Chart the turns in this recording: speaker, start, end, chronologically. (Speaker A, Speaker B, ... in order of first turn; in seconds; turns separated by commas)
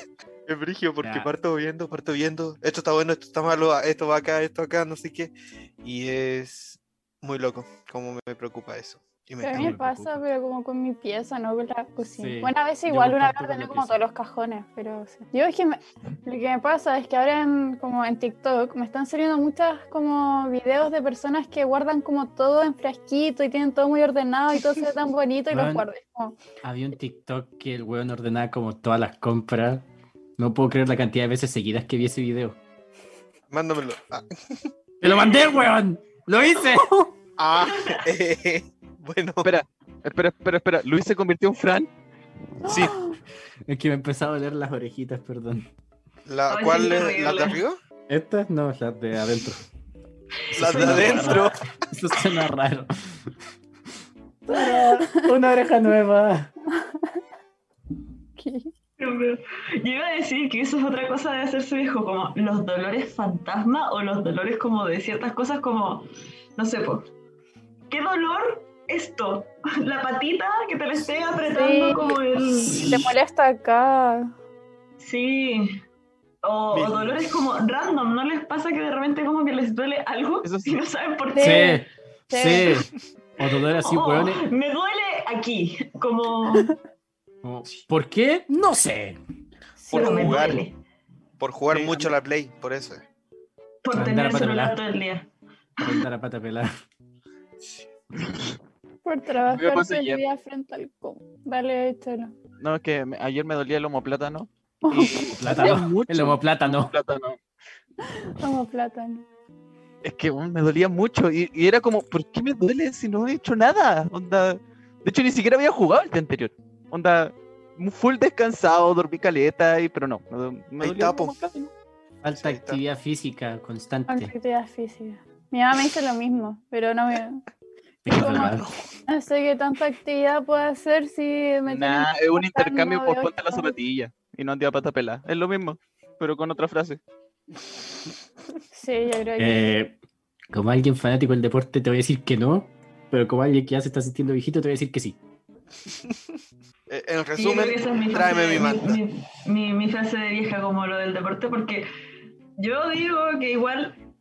Speaker A: 0.5-9.7, Speaker B: 1.0-1.3, Speaker C: 9.4-26.4, Speaker B: 9.5-10.2, Speaker B: 12.1-14.0, Speaker B: 25.5-25.9, Speaker B: 26.6-29.8, Speaker B: 30.4-32.6, Speaker A: 33.5-34.7, Speaker B: 35.0-37.1, Speaker A: 37.4-39.5, Speaker D: 37.7-38.0, Speaker E: 39.4-41.9, Speaker A: 42.6-43.0, Speaker C: 42.6-43.1, Speaker B: 43.7-45.6, Speaker A: 46.3-47.8, Speaker D: 46.5-47.6, Speaker B: 48.1-49.6, Speaker D: 50.5-51.5, Speaker A: 50.5-51.5, Speaker B: 50.5-53.2, Speaker C: 54.5-55.3, Speaker B: 54.5-56.5, Speaker C: 56.7-57.2, Speaker C: 58.4-58.7, Speaker D: 59.0-67.1, Speaker D: 67.9-72.9, Speaker C: 71.5-72.2, Speaker B: 72.6-73.0, Speaker C: 72.7-74.3, Speaker D: 75.0-75.8, Speaker D: 76.4-81.8, Speaker A: 76.7-77.3, Speaker E: 80.4-80.8, Speaker C: 81.3-82.8, Speaker B: 81.4-84.4, Speaker D: 83.7-86.7, Speaker B: 87.4-89.2, Speaker C: 89.8-90.4, Speaker A: 89.9-90.6, Speaker D: 89.9-90.8, Speaker A: 91.4-93.0, Speaker E: 91.7-92.1, Speaker D: 93.8-95.3, Speaker B: 93.9-94.8, Speaker B: 95.8-96.7, Speaker C: 99.0-102.3, Speaker E: 99.5-100.2, Speaker E: 102.6-107.4, Speaker C: 104.8-105.6, Speaker B: 105.3-106.9, Speaker C: 108.0-109.2, Speaker E: 110.0-121.7, Speaker A: 120.8-121.4, Speaker B: 122.2-124.3, Speaker A: 122.3-122.8, Speaker C: 124.1-127.4, Speaker B: 128.0-128.7, Speaker C: 128.1-133.8, Speaker A: 128.1-128.7, Speaker E: 131.7-137.0, Speaker C: 138.7-139.7, Speaker B: 139.4-140.0, Speaker B: 140.5-145.2, Speaker A: 146.9-149.0, Speaker D: 147.3-151.9, Speaker D: 152.6-154.0